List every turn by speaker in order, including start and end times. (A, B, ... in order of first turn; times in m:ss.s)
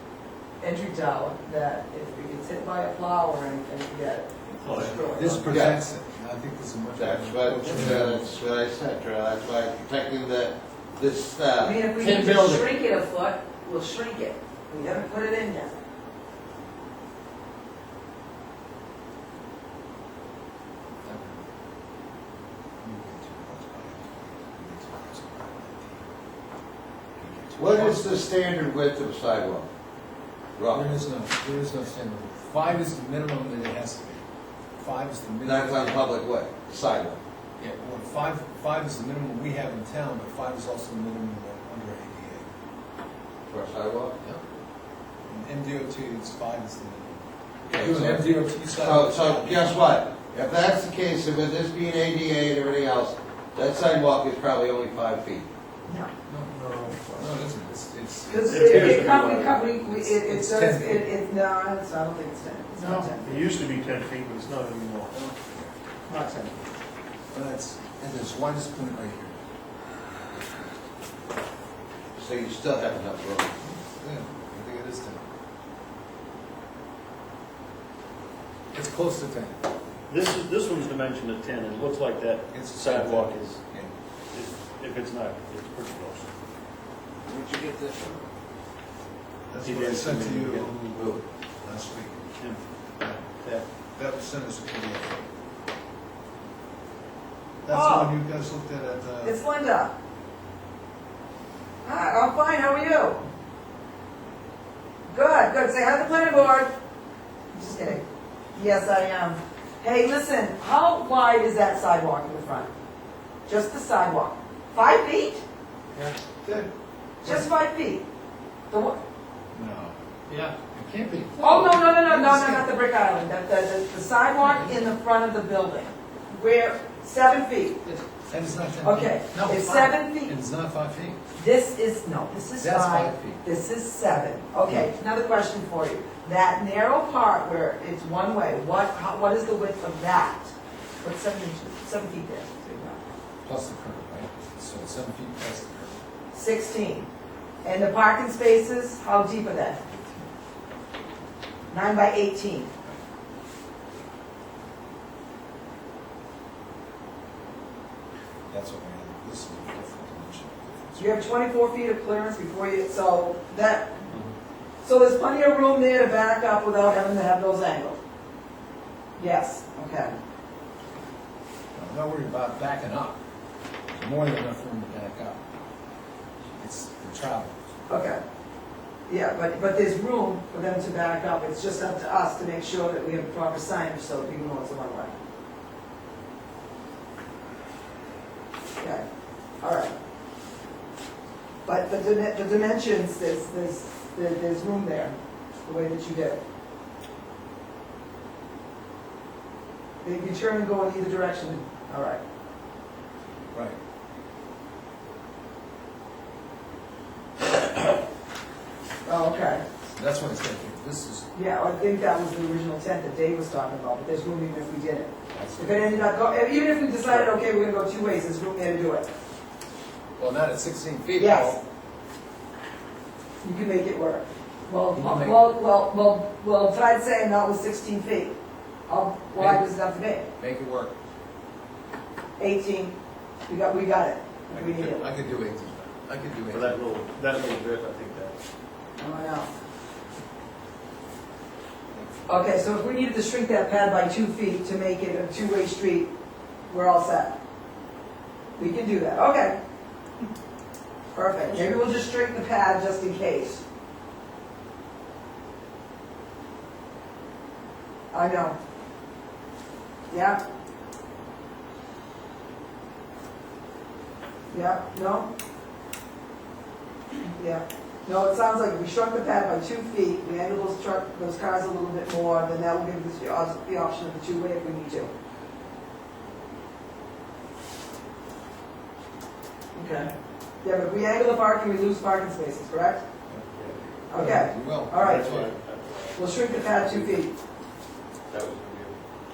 0:00.6-0:05.4 A
0:04.6-0:05.0 B
0:05.1-0:08.3 C
0:05.5-0:05.8 D
0:07.0-0:11.8 D
0:11.6-0:15.8 A
0:12.0-0:12.6 B
0:21.0-0:21.5 C
0:22.8-0:26.1 C
0:27.2-0:28.4 C
0:27.6-0:29.7 D
0:30.6-0:31.0 D
0:30.7-0:34.2 C
0:34.8-0:36.0 C
0:35.4-0:37.2 D
0:37.6-0:42.5 C
0:43.5-0:44.2 D
0:45.3-0:49.9 C
0:47.7-0:55.5 D
0:56.3-0:56.5 C
0:56.5-0:57.3 B
0:57.1-0:59.1 C
0:58.3-1:03.5 A
0:58.4-0:59.6 B
0:59.7-1:01.1 C
1:02.8-1:05.2 B
1:05.1-1:05.7 C
1:06.1-1:06.5 A
1:07.3-1:09.4 C
1:12.2-1:13.6 D
1:13.6-1:15.2 C
1:18.7-1:19.6 C
1:20.1-1:23.6 B
1:22.5-1:23.9 C
1:24.3-1:26.3 B
1:27.2-1:28.3 D
1:29.5-1:32.2 C
1:29.6-1:30.8 B
1:33.0-1:33.2 C
1:33.4-1:33.7 B
1:34.0-1:35.3 C
1:37.6-1:39.4 C
1:37.7-1:38.1 A
1:39.2-1:39.9 A
1:41.8-1:43.2 A
1:45.1-1:46.7 A
1:47.5-1:48.0 A
1:48.6-1:52.7 A
1:53.5-1:55.4 A
1:56.0-1:56.7 C
1:57.2-1:58.0 A
1:58.7-1:59.0 A
1:59.5-2:02.7 C
2:01.4-2:07.9 A
2:04.4-2:04.8 C
2:08.3-2:11.2 C
2:08.8-2:10.4 A
2:11.4-2:23.0 A
2:12.6-2:13.4 C
2:23.4-2:26.0 C
2:26.3-2:27.1 A
2:27.6-2:29.8 A
2:29.9-2:30.3 C
2:31.7-2:32.7 A
2:38.5-2:41.3 C
2:41.0-2:44.1 A
2:44.8-2:48.0 A
2:49.2-2:50.2 A
2:51.8-2:53.2 C
2:53.9-2:55.4 C
2:56.6-2:57.6 C
2:57.9-2:58.2 A
2:59.1-3:05.2 A
3:08.8-3:09.0 A
3:09.6-3:09.9 A
3:11.6-3:16.4 A
3:20.0-3:22.2 A
3:23.5-3:23.8 C
3:29.0-3:29.7 A
3:29.9-3:31.3 C
3:31.3-3:39.1 A
3:35.3-3:36.0 C
3:40.2-3:41.6 C
3:41.2-3:41.6 A
3:43.4-3:48.3 A
3:44.9-3:45.6 C
3:48.9-3:50.2 A
3:49.4-3:49.7 C
3:50.4-3:50.9 C
3:52.4-3:53.0 A
3:53.5-3:55.1 A
3:54.5-3:56.9 C
3:56.5-3:58.4 B
3:59.0-3:59.5 A
4:02.3-4:06.1 A
4:06.7-4:07.4 A
4:08.6-4:09.6 A
4:11.1-4:13.6 A
4:18.1-4:18.6 A
4:20.1-4:20.4 A
4:24.5-4:25.3 A
4:27.4-4:35.1 A
4:39.7-4:40.1 A
4:40.6-4:43.0 A
4:43.5-4:43.9 B
4:44.1-4:45.3 A
4:44.1-4:45.5 C
4:44.9-4:47.2 B
4:46.2-4:47.3 A
4:48.3-4:49.0 B